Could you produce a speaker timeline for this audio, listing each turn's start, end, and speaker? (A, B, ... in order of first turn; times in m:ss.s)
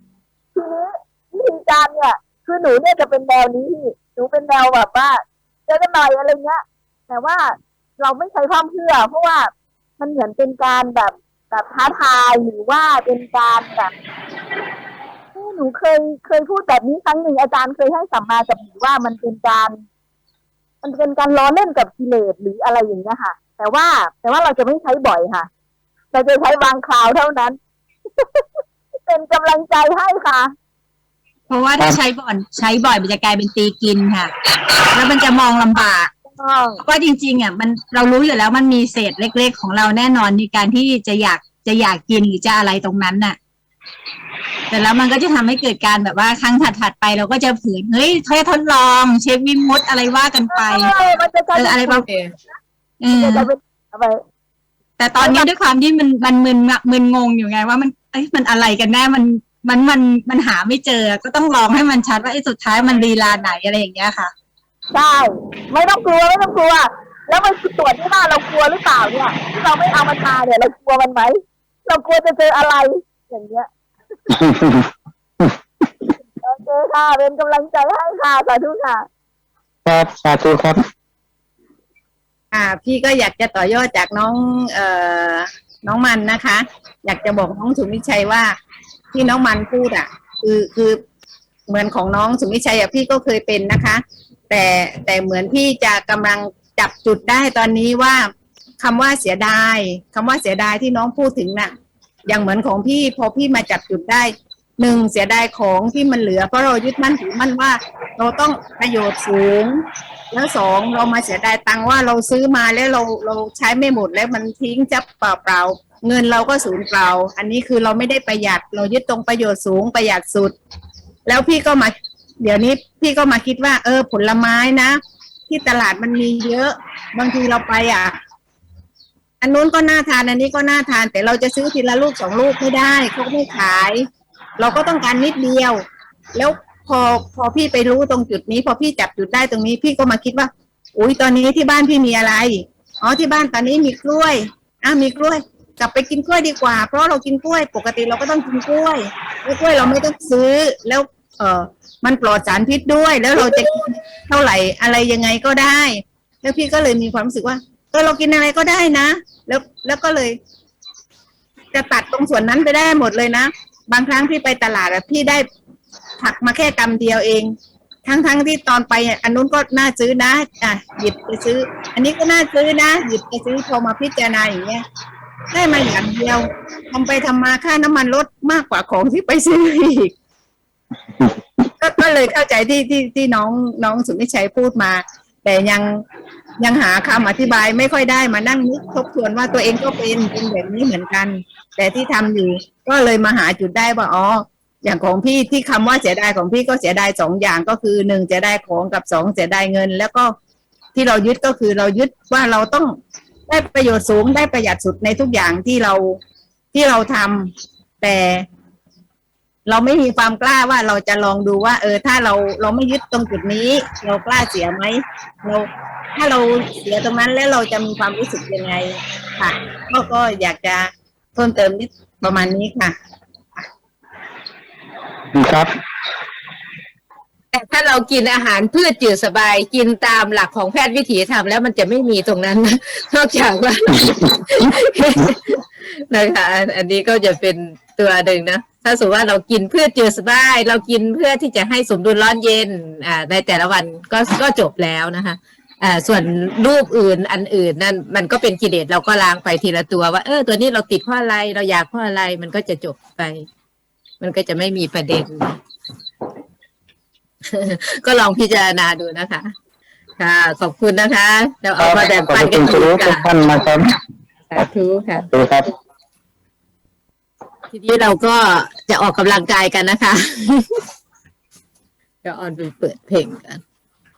0:00.5-0:13.9 A
0:15.3-0:19.8 A
0:20.8-0:25.5 A
0:26.1-0:27.6 A
0:28.2-0:30.5 A
0:31.5-0:34.3 B
0:34.9-0:36.1 B
0:36.3-0:36.8 A
0:36.8-0:43.4 B
0:44.7-0:50.9 B
0:50.5-0:52.0 A
0:51.5-0:52.0 B
0:52.1-0:52.3 C
0:53.0-0:53.5 B
0:53.1-0:54.2 A
0:55.0-1:04.3 B
0:55.2-0:55.5 A
1:04.9-1:13.7 A
1:14.3-1:14.9 D
1:16.4-1:19.1 A
1:19.8-1:20.8 D
1:22.5-1:28.5 E
1:29.1-1:31.0 E
1:31.7-1:41.7 E
1:42.3-2:00.5 E
2:01.2-2:08.2 E
2:09.4-2:14.1 E
2:14.6-2:15.8 E
2:16.3-2:40.4 E
2:41.7-2:45.5 E
2:46.2-2:47.5 E
2:48.0-2:54.8 E
2:55.5-3:00.1 E
3:01.8-3:06.0 E
3:06.6-3:20.3 E
3:20.9-3:23.0 E
3:23.5-3:26.2 E
3:26.7-3:28.5 E
3:29.6-3:43.0 E
3:45.3-3:45.7 D
3:47.5-4:13.4 C
4:14.2-4:15.6 C
4:17.4-4:19.5 C
4:20.2-4:23.3 C
4:21.8-4:23.9 D
4:24.5-4:25.3 C
4:25.3-4:25.7 D
4:27.7-4:30.8 C
4:32.2-4:33.6 C